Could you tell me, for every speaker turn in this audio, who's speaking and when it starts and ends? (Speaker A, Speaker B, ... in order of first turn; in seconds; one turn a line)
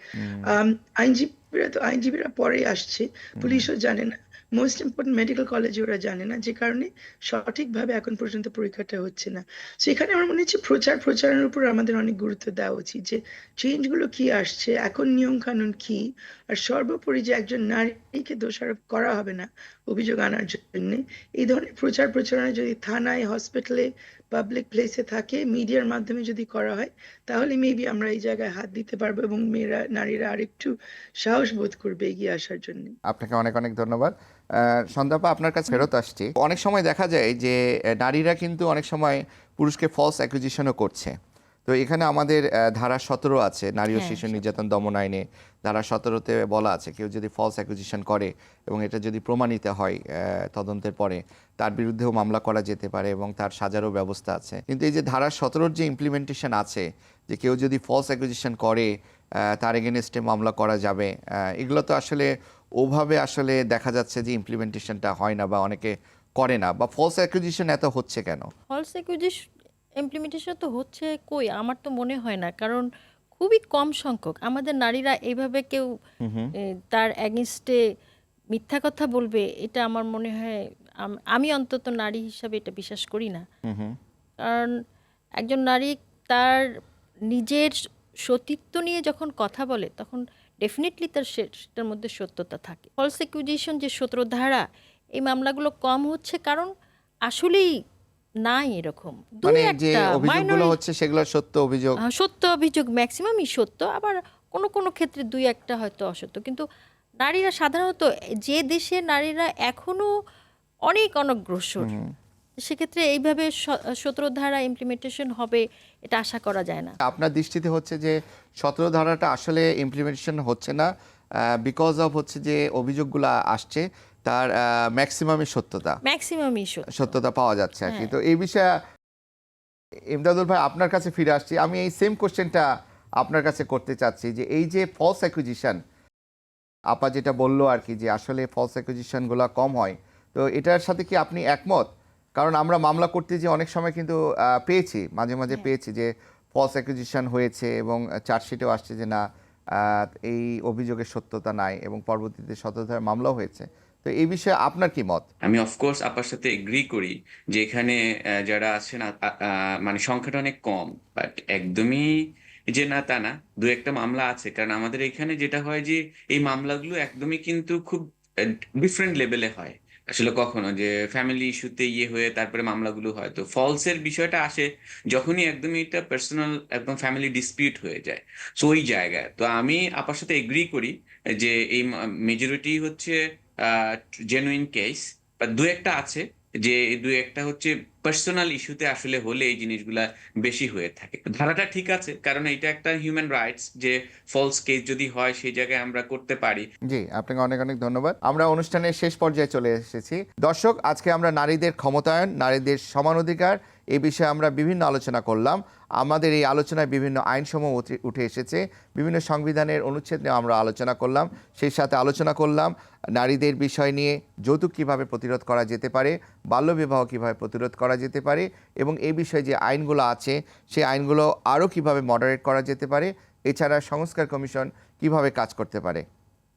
Speaker A: 0.2-0.5
Speaker B: 0.5-32.9
Speaker A: 3.4-3.7
Speaker A: 33.0-41.1
Speaker A: 41.7-58.9
Speaker C: 43.9-44.5
Speaker A: 59.5-62.3
Speaker A: 62.8-68.5
Speaker C: 68.7-69.4
Speaker C: 70.0-75.8
Speaker A: 76.2-76.5
Speaker C: 76.9-77.8
Speaker C: 78.5-83.4
Speaker A: 83.7-84.0
Speaker C: 84.4-84.7
Speaker C: 85.4-86.6
Speaker C: 87.3-87.7
Speaker C: 88.2-94.6
Speaker C: 95.2-96.7
Speaker C: 97.3-97.7
Speaker C: 98.5-100.7
Speaker A: 99.4-102.0
Speaker C: 102.0-106.6
Speaker C: 107.2-110.1
Speaker C: 110.9-111.9
Speaker A: 111.8-112.1
Speaker C: 112.6-117.0
Speaker A: 117.0-120.9
Speaker A: 121.6-126.0
Speaker C: 126.0-127.1
Speaker A: 126.9-128.7
Speaker C: 127.9-128.1
Speaker A: 130.1-132.7
Speaker A: 133.2-135.8
Speaker A: 136.9-149.2
Speaker A: 149.8-155.2
Speaker D: 155.4-162.1
Speaker D: 162.7-168.0
Speaker D: 168.8-196.7
Speaker A: 196.9-226.0